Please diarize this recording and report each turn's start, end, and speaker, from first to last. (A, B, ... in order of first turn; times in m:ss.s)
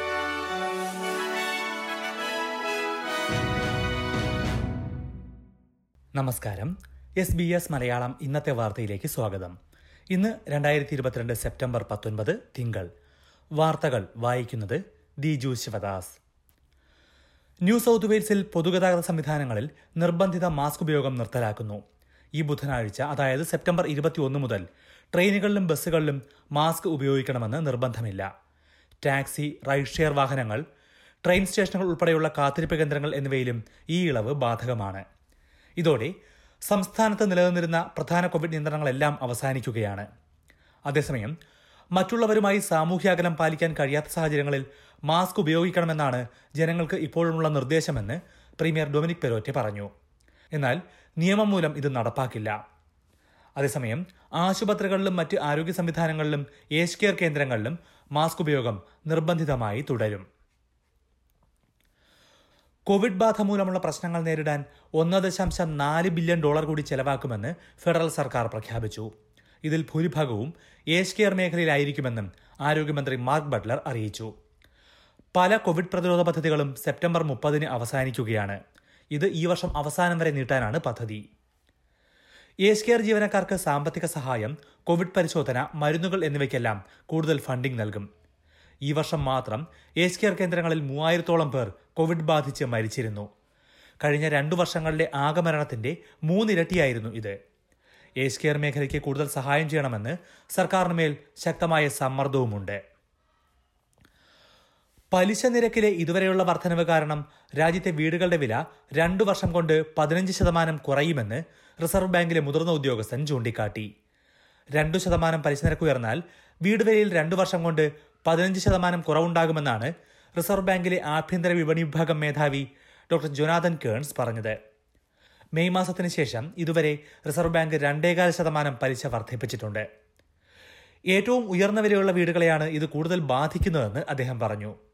0:06.2-0:09.5 A
0:10.1-0:12.9 A
0:13.6-0:16.2 A
0:17.6-0:21.8 A
0:22.4-0:28.3 A
0:29.0-0:30.6 A
0:31.2-0:35.0 A
0:35.8-0:36.1 A
0:36.7-0:40.1 A
0:40.9-0:41.3 A
0:41.9-0:49.9 A
0:50.6-0:52.5 A
0:53.6-1:00.2 A
1:02.9-1:09.1 A
1:09.6-1:14.3 A
1:15.3-1:18.6 A
1:19.1-1:21.2 A
1:22.6-1:28.1 A
1:28.9-1:33.3 A
1:34.0-1:37.4 A
1:38.2-1:42.8 A
1:45.1-1:53.9 A
1:54.8-2:04.6 A
2:05.6-2:09.8 A
2:11.1-2:14.7 A